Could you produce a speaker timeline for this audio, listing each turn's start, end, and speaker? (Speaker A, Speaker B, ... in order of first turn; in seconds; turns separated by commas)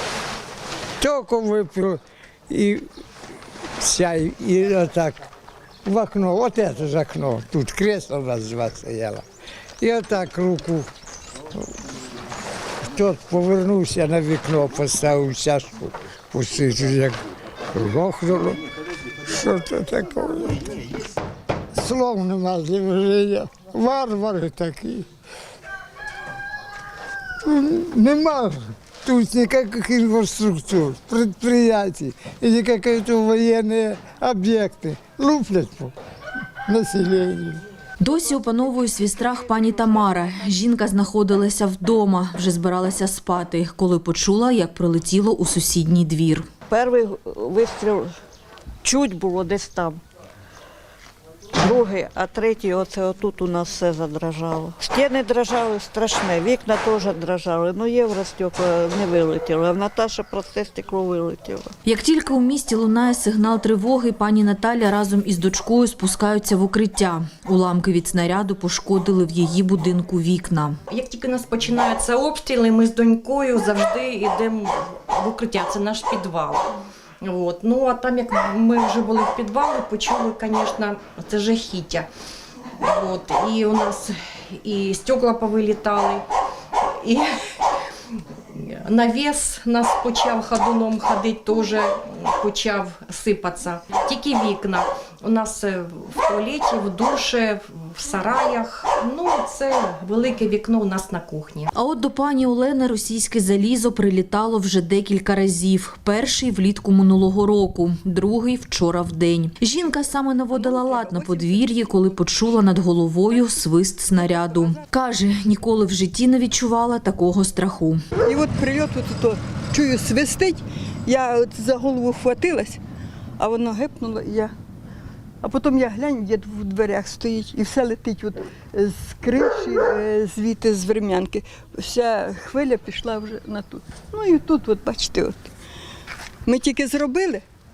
Speaker A: 1.0-2.9, Speaker A: 3.8-5.2, Speaker A: 5.8-9.2, Speaker A: 9.8-10.9, Speaker A: 12.9-17.2, Speaker A: 17.7-18.6, Speaker A: 19.2-20.8, Speaker A: 21.8-25.1, Speaker A: 27.4-35.9, Speaker A: 36.7-37.6, Speaker B: 38.0-46.5, Speaker C: 46.7-48.2, Speaker C: 48.8-50.0, Speaker C: 51.5-61.7, Speaker B: 61.9-70.8, Speaker D: 70.9-76.7, Speaker D: 77.2-82.1, Speaker D: 82.8-86.2, Speaker D: 86.8-87.6, Speaker D: 88.5-101.7, Speaker B: 101.8-118.0, Speaker E: 118.2-122.8, Speaker E: 123.4-124.5, Speaker E: 125.4-135.5, Speaker E: 136.4-137.4